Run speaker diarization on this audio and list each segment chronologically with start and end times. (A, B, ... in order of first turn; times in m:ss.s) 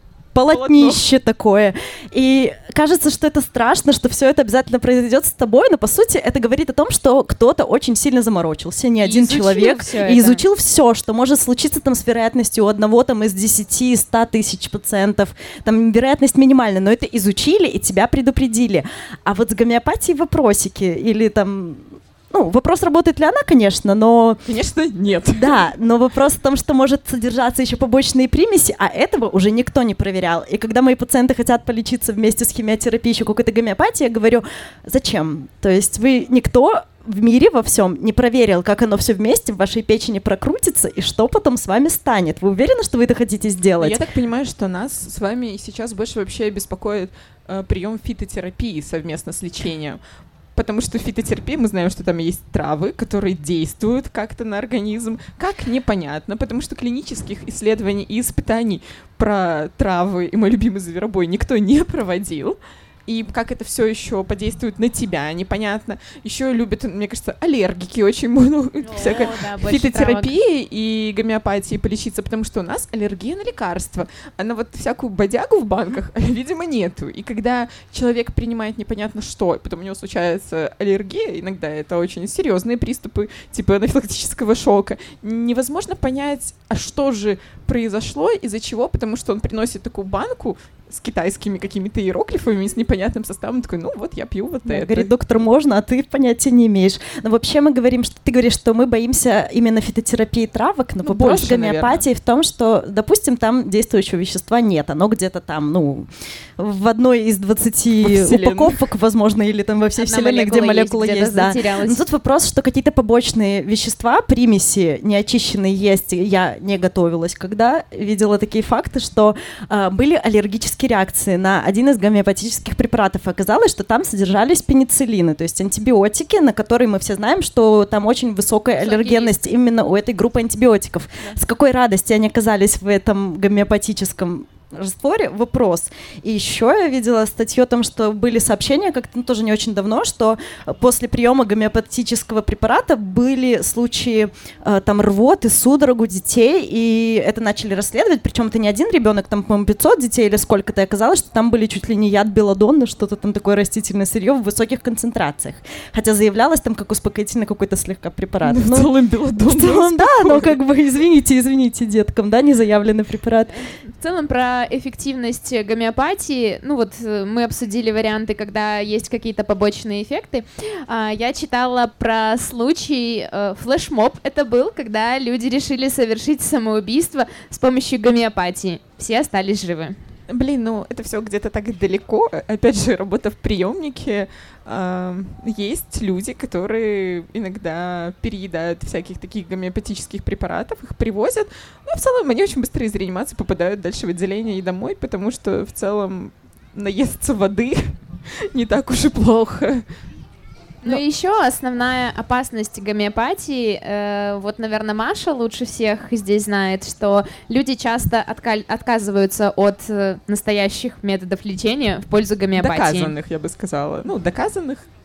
0:00.3-0:24.4 A
0:00.5-0:01.0 B
0:09.0-0:10.4 C
0:24.4-0:25.6 B
0:25.3-0:44.0 A
0:43.8-0:50.0 B
0:50.6-1:35.1 B
1:08.8-1:10.3 C
1:34.6-2:38.9 A
1:41.0-1:42.0 B
1:48.0-1:48.8 B
1:50.0-1:52.0 C
2:08.8-2:09.4 C
2:38.4-2:40.6 B
2:39.4-2:43.5 A
2:44.0-3:00.0 C
3:00.3-3:19.8 B
3:20.8-3:33.1 C
3:32.6-3:34.8 B